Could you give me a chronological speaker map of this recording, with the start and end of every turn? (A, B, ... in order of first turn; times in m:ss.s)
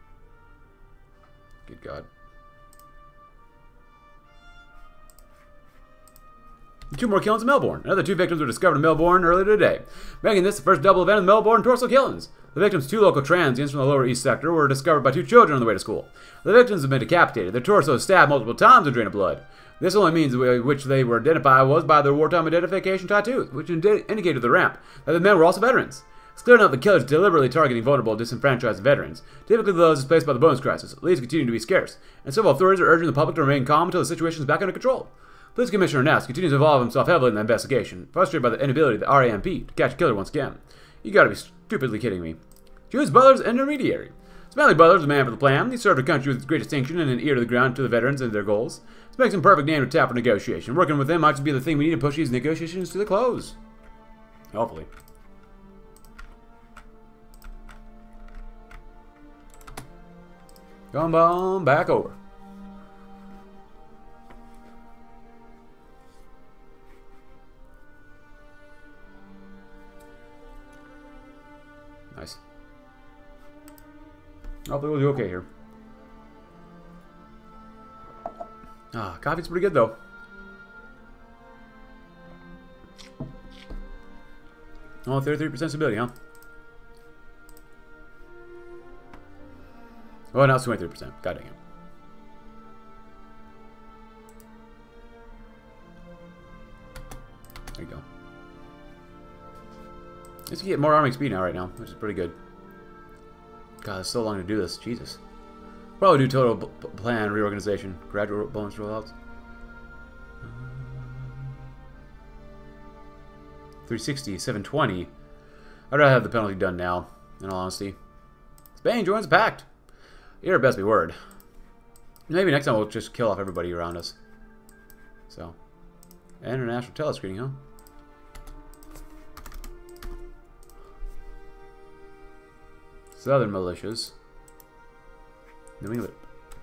0:01.7-0:02.1 A
0:06.9-0:42.4 A
0:42.9-0:53.6 A
0:54.5-0:54.9 A
1:00.9-1:02.2 A
1:12.1-1:12.4 A
1:14.7-1:15.5 A
1:18.9-1:20.0 A
1:25.1-1:26.1 A
1:30.3-1:31.6 A
1:37.8-1:38.0 A
1:40.5-1:42.4 A
1:43.8-1:45.2 A
1:46.0-1:49.1 A
1:50.4-1:51.3 A
1:53.9-1:55.1 A
1:55.9-1:58.0 A
1:58.8-1:59.7 A
2:00.4-2:01.2 A
2:02.3-2:04.2 A
2:05.3-2:05.6 A
2:06.4-2:07.6 A
2:13.1-2:14.1 A
2:15.8-2:16.2 A